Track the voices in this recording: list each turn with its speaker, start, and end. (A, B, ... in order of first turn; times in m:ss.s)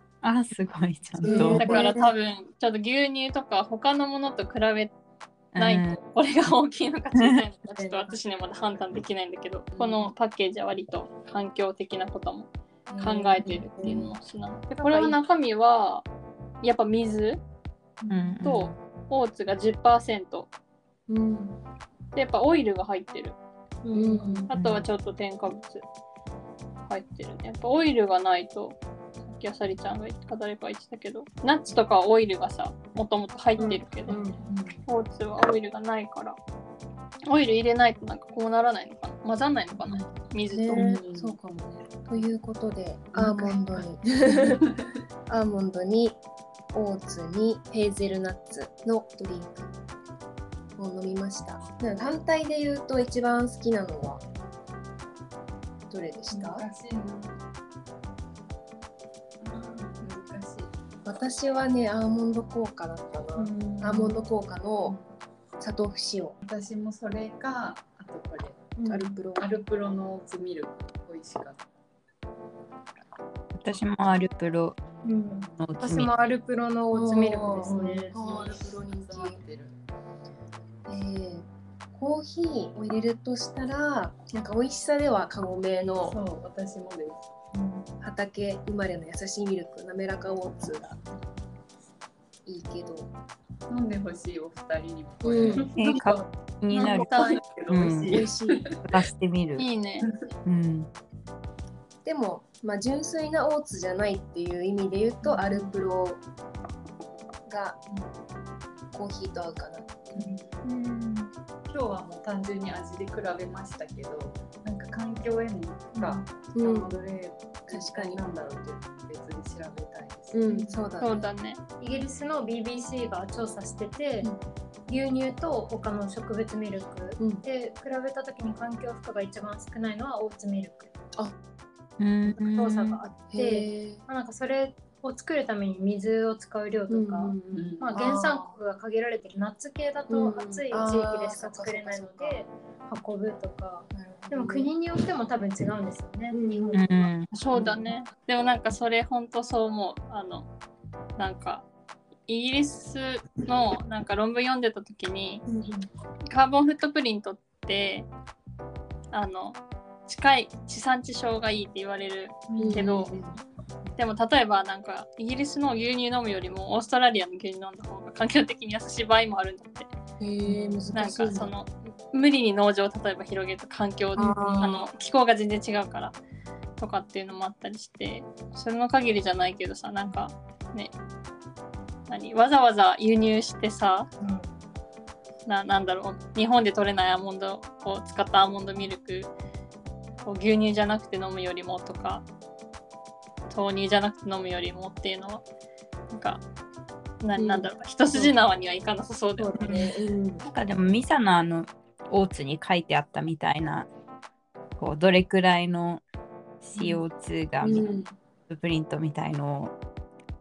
0:00.2-0:01.8 A
0:01.2-0:02.1 B
0:01.3-0:01.6 C
0:01.6-0:04.9 D
0:05.5-0:06.0 A
0:05.6-0:16.1 D
0:07.7-0:08.1 E
0:09.7-0:10.1 E
0:12.9-0:13.9 E
0:13.7-0:14.1 B
0:14.7-0:15.2 E
0:16.6-0:17.4 D
0:18.0-0:18.3 E
0:18.1-0:18.8 A
0:18.4-0:20.5 D
0:21.1-0:21.5 B
0:22.1-0:23.4 D
0:23.8-0:24.5 C
0:23.9-0:24.5 B
0:24.5-0:25.8 D
0:24.5-0:24.8 A
0:26.9-0:34.2 D
0:33.6-0:34.4 B
0:34.5-0:34.8 E
0:34.9-0:36.4 D
0:37.3-0:40.9 D
0:40.5-0:44.6 B
0:40.7-0:41.4 E
0:43.1-0:44.9 E
0:45.3-0:46.2 B
0:46.7-0:49.7 B
0:50.8-0:54.2 B
0:55.9-0:56.6 B
0:56.3-0:57.4 E
0:59.4-1:00.7 E
1:01.0-1:05.0 B
1:03.4-1:04.2 C
1:05.6-1:06.4 B
1:06.4-1:08.7 E
1:08.8-1:09.2 C
1:08.8-1:09.5 B
1:09.4-1:11.6 E
1:13.5-1:14.8 A
1:15.0-1:18.2 C
1:15.6-1:16.1 A
1:16.9-1:19.4 B
1:17.6-1:19.7 E
1:20.9-1:26.2 B
1:26.0-1:27.4 E
1:28.0-1:31.0 B
1:32.4-1:33.1 B
1:33.7-1:36.3 E
1:35.2-1:35.7 B
1:35.8-1:38.2 A
1:36.7-1:37.4 D
1:36.8-1:39.0 E
1:38.1-1:38.7 B
1:38.9-1:39.7 A
1:39.6-1:40.1 D
1:40.0-1:40.3 E
1:40.4-1:40.9 A
1:42.0-1:46.2 B
1:45.2-1:45.8 E
1:47.5-1:47.8 B
1:48.9-1:50.3 B
1:50.1-1:50.6 E
1:50.6-1:51.2 C
1:51.7-2:00.8 E
1:55.9-1:56.2 C
1:56.5-1:56.9 B
1:57.7-1:58.2 B
2:00.3-2:01.2 B
2:01.0-2:01.6 D
2:01.8-2:04.3 C
2:04.9-2:10.9 C
2:07.2-2:07.4 B
2:12.0-2:13.0 A
2:12.4-2:27.1 C
2:13.3-2:14.0 B
2:16.9-2:18.5 B
2:17.5-2:18.4 E
2:20.1-2:22.4 B
2:23.9-2:24.7 B
2:26.3-2:26.9 B
2:26.7-2:27.3 A
2:27.3-2:30.5 D
2:31.2-2:31.6 D
2:32.3-2:35.4 D
2:35.4-2:35.8 C
2:36.3-2:38.1 D
2:39.1-2:43.1 D
2:42.5-2:43.2 E
2:42.6-2:43.3 B
2:44.0-2:49.9 D
2:50.2-2:51.5 B
2:50.4-2:50.8 E
2:50.9-2:56.2 D
2:54.2-2:54.8 B
2:56.8-3:00.9 D
3:02.1-3:04.1 D
3:05.4-3:09.3 D
3:10.2-3:12.2 D
3:13.5-3:15.4 D
3:16.1-3:16.4 D
3:17.2-3:19.8 D
3:17.4-3:18.3 B
3:19.4-3:20.4 B
3:19.6-3:19.9 A
3:20.4-3:23.9 A
3:24.8-3:26.0 A
3:26.6-3:27.9 A
3:27.6-3:28.1 B
3:28.5-3:29.7 A